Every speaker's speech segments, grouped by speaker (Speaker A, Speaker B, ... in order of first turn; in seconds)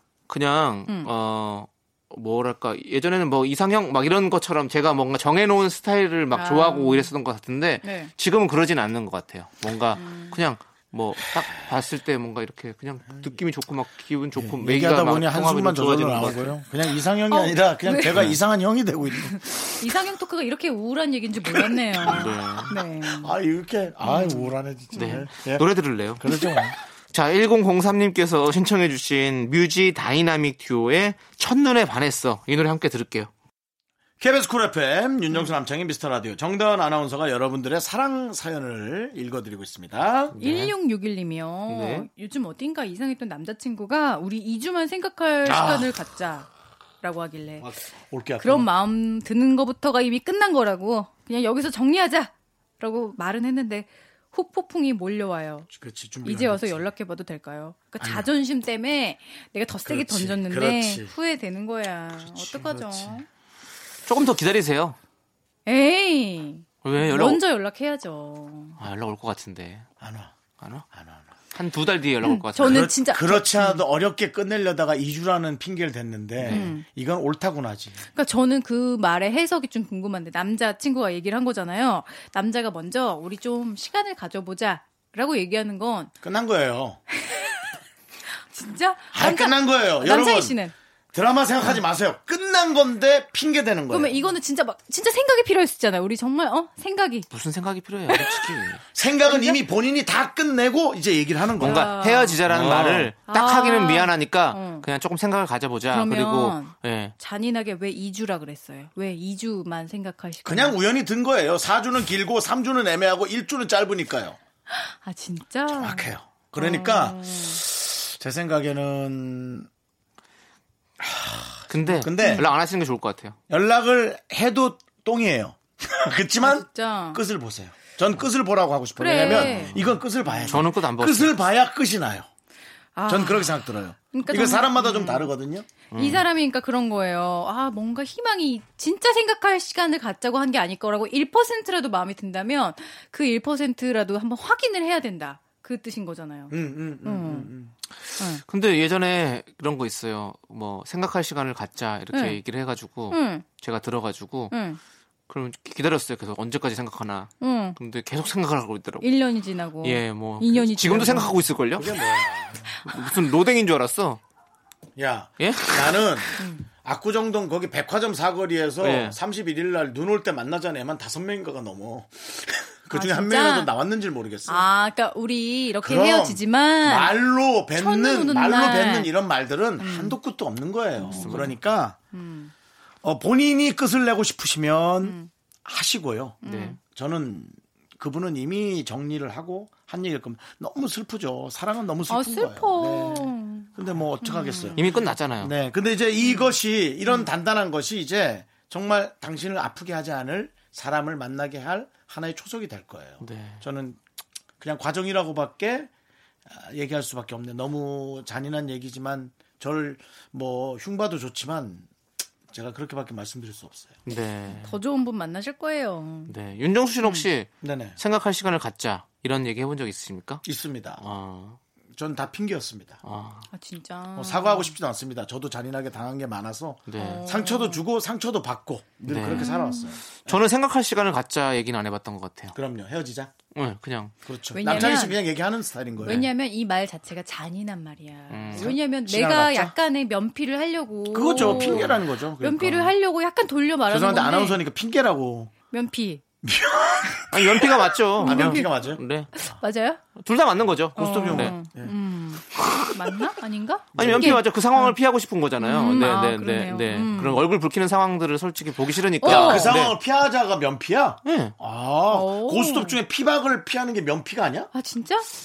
Speaker A: 0.3-16.6, 22.1-22.8, 24.9-26.2, 27.1-33.3, 40.3-40.7, 41.7-42.1, 64.1-65.0, 66.8-67.4, 68.8-69.9, 70.6-70.8, 71.5-72.9, 76.4-76.7, 97.3-98.8, 101.6-107.1, 121.7-123.4, 129.3-129.9, 130.5-131.3, 135.9-136.2, 148.4-154.5, 155.3-159.1, 159.8-162.0, 162.8-164.2, 165.4-166.3, 168.8-169.2, 181.1-181.6, 186.4-186.8, 194.8-195.5, 203.2-203.6, 214.1-214.7, 216.3-220.4, 221.0-221.6, 223.0-223.5, 226.9-227.2, 229.1-229.5, 230.2-232.6, 233.5-234.1, 238.3-238.7, 241.4-241.9, 247.3-249.3, 250.2-251.6, 252.5-253.0, 254.0-260.0, 261.2-261.5
Speaker B: 6.3-7.1, 7.8-8.1, 9.9-10.4, 17.3-18.3, 19.1-23.3, 24.0-25.2, 40.4-46.5, 47.0-47.7, 48.4-55.7, 56.2-63.3, 65.7-68.8, 72.2-73.8, 76.5-76.8, 78.2-86.1, 87.1-87.7, 88.5-90.7, 93.9-97.3, 98.1-98.5, 99.3-99.6, 101.6-102.4, 103.3-104.9, 105.9-110.8, 114.7-117.6, 122.1-122.5, 126.4-127.2, 129.0-129.8, 133.0-135.3, 136.0-147.5, 148.2-148.4, 152.1-152.4, 153.1-153.4, 154.5-154.8, 157.4-157.8, 159.0-161.4, 166.4-166.7, 172.9-173.7, 174.5-177.1, 177.8-179.1, 179.8-180.2, 181.0-181.4, 182.1-182.5, 185.0-185.3, 186.4-186.8, 192.1-193.7, 194.2-195.1, 196.2-196.5, 197.1-197.3, 214.5-216.3, 223.5-224.7, 227.0-227.8, 229.3-230.0, 234.5-235.2, 236.0-244.6, 245.7-246.2, 248.2-248.7, 249.3-250.0, 251.0-255.0, 255.6-257.5, 259.2-259.8, 262.1-263.0, 264.7-265.3
Speaker C: 14.4-19.6, 21.5-22.3, 23.0-26.8, 34.2-40.4, 45.5-45.9, 47.6-48.7, 55.7-56.9, 58.0-58.3, 59.9-61.1, 62.2-63.2, 70.0-70.3, 70.9-71.2, 72.6-78.0, 86.2-87.0, 89.1-90.6, 91.1-94.2, 98.9-101.9, 102.5-103.1, 110.5-114.4, 115.7-119.7, 121.0-122.5, 123.5-132.3, 133.1-135.7, 146.5-147.8, 161.8-162.7, 165.0-174.7, 175.8-182.0, 183.0-186.4, 186.9-194.9, 195.4-204.0, 204.6-205.9, 206.5-211.9, 212.5-214.0, 217.6-218.0, 220.4-221.1, 222.0-223.0, 224.2-230.4, 232.5-233.3, 234.2-236.3, 238.6-239.7, 241.1-242.9, 243.9-245.5, 246.4-249.0, 251.0-251.9, 253.9-254.4, 259.2-264.7